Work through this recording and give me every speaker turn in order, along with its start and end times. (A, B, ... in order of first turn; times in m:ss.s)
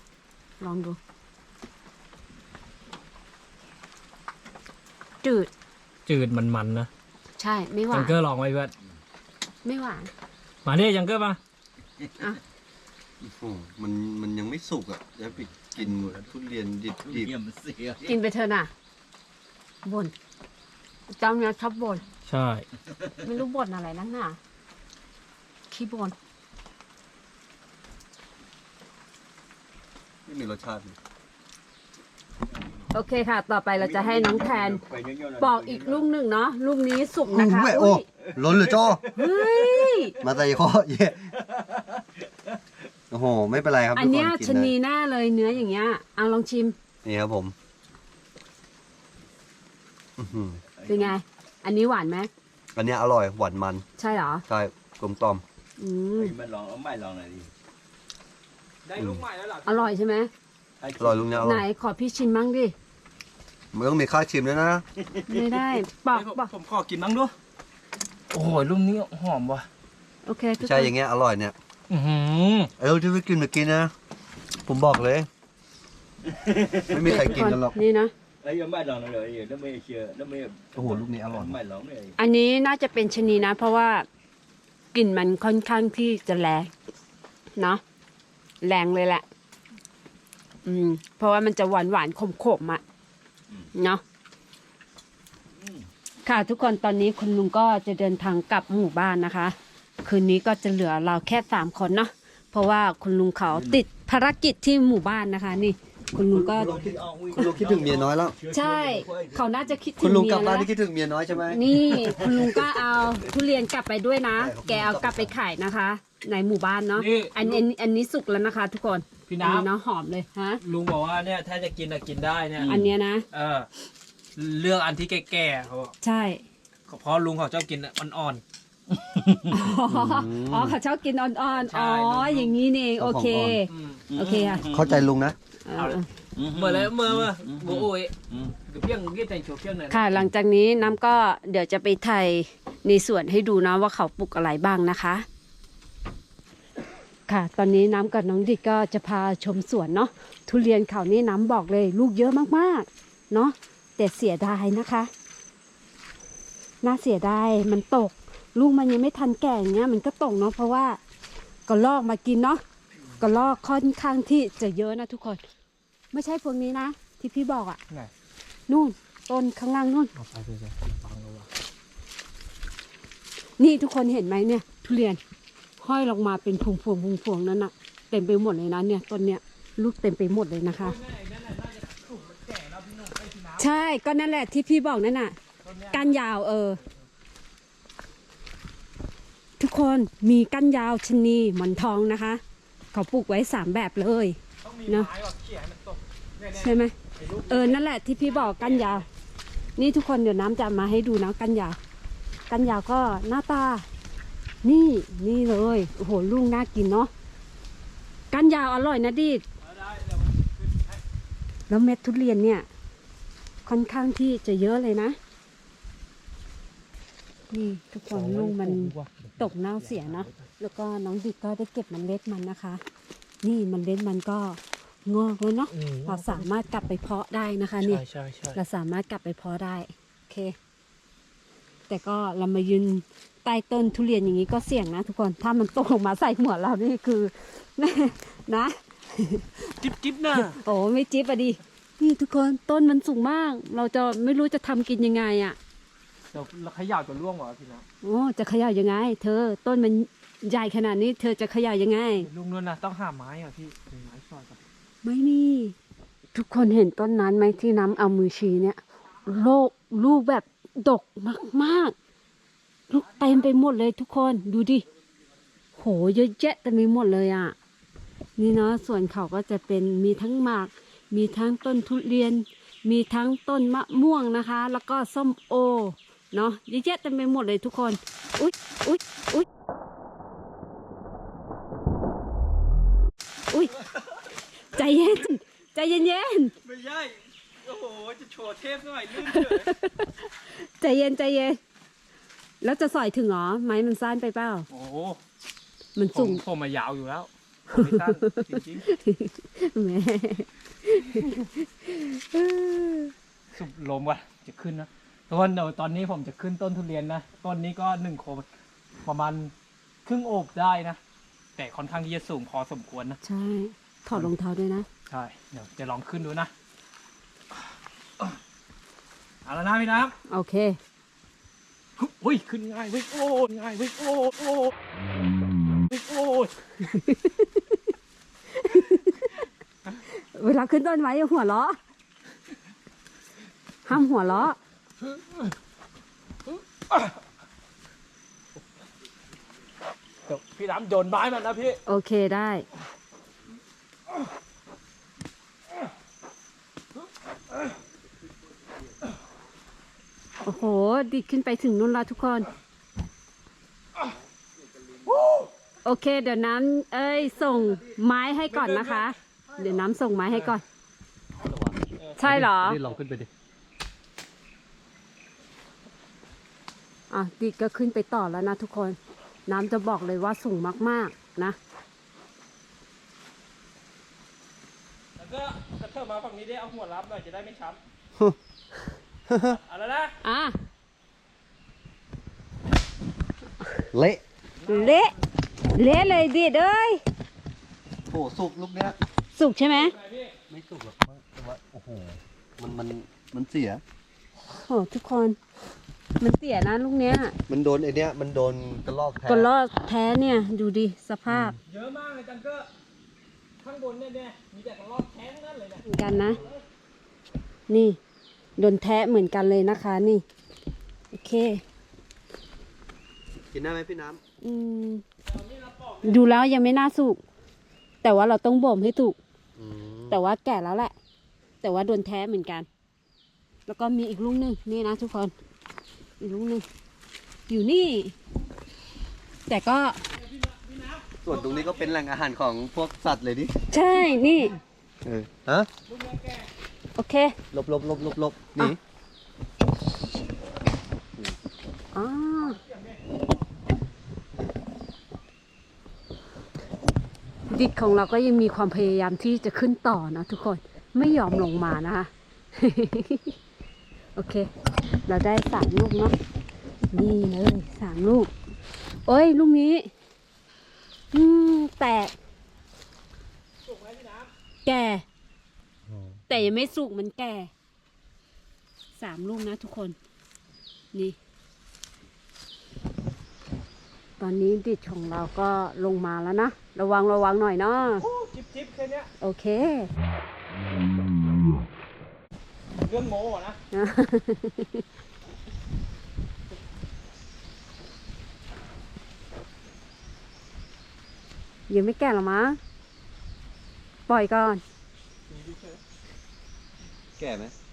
0:00.6-0:01.0 A
0:05.2-0:05.5 A
0:06.1-0:06.9 B
0:07.4-0:08.1 A
0:07.9-0:08.7 B
0:09.6-0:10.1 A
0:10.6-0:11.4 B
0:11.8-0:12.3 C
0:13.2-0:17.3 D
0:15.5-0:16.3 C
0:17.0-0:18.2 C
0:18.1-0:18.7 A
0:19.8-0:20.2 A
0:21.1-0:22.0 A
0:22.3-0:22.6 B
0:22.8-0:23.3 C
0:23.2-0:24.4 A
0:25.7-0:26.2 A
0:30.3-0:31.0 D
0:32.5-0:32.9 C
0:32.9-0:34.8 A
0:33.8-0:36.1 C
0:35.4-0:38.0 A
0:37.3-0:39.0 D
0:38.3-0:40.6 C
0:39.2-0:40.2 A
0:40.2-0:41.2 D
0:41.2-0:42.9 C
0:43.1-0:44.7 D
0:44.0-0:46.8 A
0:47.0-0:47.5 D
0:50.2-0:50.6 D
0:50.6-0:51.2 C
0:50.9-0:52.3 A
0:52.8-0:53.8 D
0:54.0-0:54.4 A
0:54.5-0:55.4 D
0:55.8-0:56.3 A
0:56.2-0:57.5 C
0:58.8-0:59.9 B
0:59.7-1:00.3 A
1:00.8-1:01.6 C
1:01.0-1:01.6 D
1:01.4-1:02.7 A
1:03.7-1:04.8 D
1:05.1-1:05.4 C
1:05.3-1:06.5 A
1:06.1-1:07.3 B
1:08.3-1:09.7 B
1:10.3-1:10.9 A
1:10.6-1:11.6 D
1:11.9-1:12.7 B
1:12.8-1:13.9 D
1:14.7-1:15.3 D
1:16.2-1:17.3 C
1:16.9-1:17.8 D
1:17.0-1:18.1 A
1:18.4-1:22.2 C
1:20.8-1:21.6 D
1:22.2-1:24.1 A
1:24.9-1:26.7 A
1:28.6-1:29.2 A
1:30.6-1:32.8 A
1:33.7-1:34.0 A
1:35.6-1:35.9 C
1:36.2-1:46.8 A
1:43.5-1:43.8 C
1:46.3-1:48.4 D
1:46.4-1:49.8 C
1:48.5-1:50.7 A
1:50.0-1:52.5 D
1:51.5-2:00.6 A
1:51.7-1:52.8 C
1:54.4-1:55.4 D
1:57.0-1:57.6 B
1:59.3-1:59.7 B
2:00.6-2:03.7 B
2:02.6-2:02.9 C
2:02.7-2:03.3 A
2:04.4-2:05.9 B
2:06.0-2:06.4 A
2:06.9-2:08.4 B
2:08.9-2:09.8 C
2:09.5-2:14.7 A
2:09.9-2:10.8 D
2:11.5-2:12.6 B
2:13.0-2:13.7 D
2:13.7-2:14.0 B
2:14.1-2:15.1 C
2:14.7-2:15.4 D
2:15.6-2:16.1 A
2:15.8-2:18.1 B
2:16.4-2:18.6 C
2:18.7-2:20.1 B
2:19.9-2:25.3 A
2:27.3-2:35.1 A
2:36.8-2:41.0 A
2:41.7-2:42.6 A
2:43.2-2:45.4 A
2:46.1-2:47.8 A
2:48.7-2:50.1 A
2:50.2-2:51.5 B
2:53.6-2:55.2 A
2:55.8-3:01.0 A
3:00.8-3:03.7 B
3:03.6-3:05.4 A
3:05.6-3:06.2 B
3:05.9-3:06.8 A
3:09.6-3:12.4 A
3:12.9-3:15.1 A
3:14.6-3:19.0 B
3:16.6-3:16.9 A
3:17.5-3:19.0 A
3:19.8-3:21.8 A
3:22.5-3:23.9 A
3:24.6-3:27.1 A
3:28.3-3:29.4 A
3:29.6-3:31.0 B
3:31.7-3:32.7 A
3:33.7-3:35.2 A
3:37.5-3:42.8 A
3:38.1-3:40.4 B
3:43.4-3:48.0 A
3:45.7-3:46.5 B
3:47.8-3:48.6 B
3:48.6-3:50.6 A
3:51.9-3:59.5 A
3:59.8-4:00.6 B
4:00.5-4:05.6 A
4:06.3-4:07.8 B
4:08.0-4:12.3 A
4:12.2-4:14.6 B
4:15.0-4:15.8 A
4:16.3-4:22.0 A
4:22.9-4:24.8 A
4:25.8-4:27.6 A
4:28.4-4:39.5 A
4:44.7-4:46.5 A
4:46.6-4:49.8 B
4:49.2-4:51.6 A
4:52.6-4:54.7 A
4:54.7-4:55.2 B
4:56.0-4:56.4 A
4:56.1-4:58.9 B
4:57.7-5:03.1 A
5:03.5-5:08.4 B
5:09.0-5:09.5 B
5:10.0-5:11.0 B
5:11.6-5:13.2 B
5:13.2-5:14.9 A
5:15.1-5:16.5 B
5:19.4-5:20.1 B
5:20.3-5:20.8 A
5:22.0-5:24.7 B
5:25.9-5:26.5 B
5:26.8-5:27.8 A
5:28.5-5:29.4 A
5:30.1-5:31.8 A
5:33.9-5:34.6 A
5:35.1-5:35.5 B
5:36.9-5:37.2 B
5:40.3-5:41.8 B
5:41.9-5:42.7 A
5:50.4-5:52.5 A
5:55.1-5:55.5 B
5:55.8-6:00.6 A
5:58.5-5:59.1 B
6:01.4-6:03.3 D
6:02.2-6:02.8 A
6:07.1-6:11.6 A
6:15.2-6:17.8 B
6:19.3-6:19.6 D
6:19.5-6:20.2 B
6:20.2-6:20.6 A
6:23.9-6:24.2 D
6:24.6-6:25.0 B
6:24.7-6:25.2 A
6:25.7-6:27.0 A
6:28.1-6:29.0 D
6:29.4-6:30.0 A
6:29.7-6:30.4 B
6:30.5-6:33.8 D
6:34.6-6:35.4 A
6:36.2-6:37.4 A
6:37.5-6:39.5 D
6:39.3-6:41.6 A
6:41.3-6:41.6 D
6:41.7-6:42.7 B
6:43.6-6:46.6 B
6:45.9-6:46.4 A
6:47.7-6:48.0 A
6:48.6-6:50.2 A
6:51.1-6:51.6 A
6:53.5-6:54.2 D
6:54.4-6:55.0 A
6:55.3-6:56.2 B
6:56.0-6:57.2 A
6:58.0-6:59.2 A
6:59.6-7:00.2 D
7:00.1-7:00.9 A
7:01.6-7:02.7 A
7:03.7-7:05.3 A
7:06.2-7:06.7 A
7:07.5-7:08.2 A
7:09.5-7:10.0 A
7:10.1-7:12.0 B
7:11.2-7:13.6 D
7:13.7-7:14.6 A
7:13.9-7:14.6 B
7:15.0-7:15.7 D
7:15.9-7:16.5 B
7:17.0-7:17.4 A
7:17.5-7:18.8 D
7:21.9-7:22.6 A
7:22.4-7:23.0 B
7:27.5-7:33.4 A
7:34.2-7:34.5 A
7:35.1-7:36.2 A
7:36.9-7:38.3 A
7:39.1-7:39.9 A
7:41.1-7:42.1 A
7:43.6-7:44.3 B
7:44.6-7:45.0 A
7:45.9-7:46.2 D
7:46.3-7:47.5 A
7:49.0-7:50.0 A
7:54.2-7:58.0 A
7:58.0-7:59.1 B
7:59.2-7:59.9 A
8:02.8-8:03.6 B
8:03.7-8:04.8 A
8:11.7-8:12.6 A
8:14.1-8:14.6 A
8:15.3-8:15.8 B
8:17.2-8:17.5 D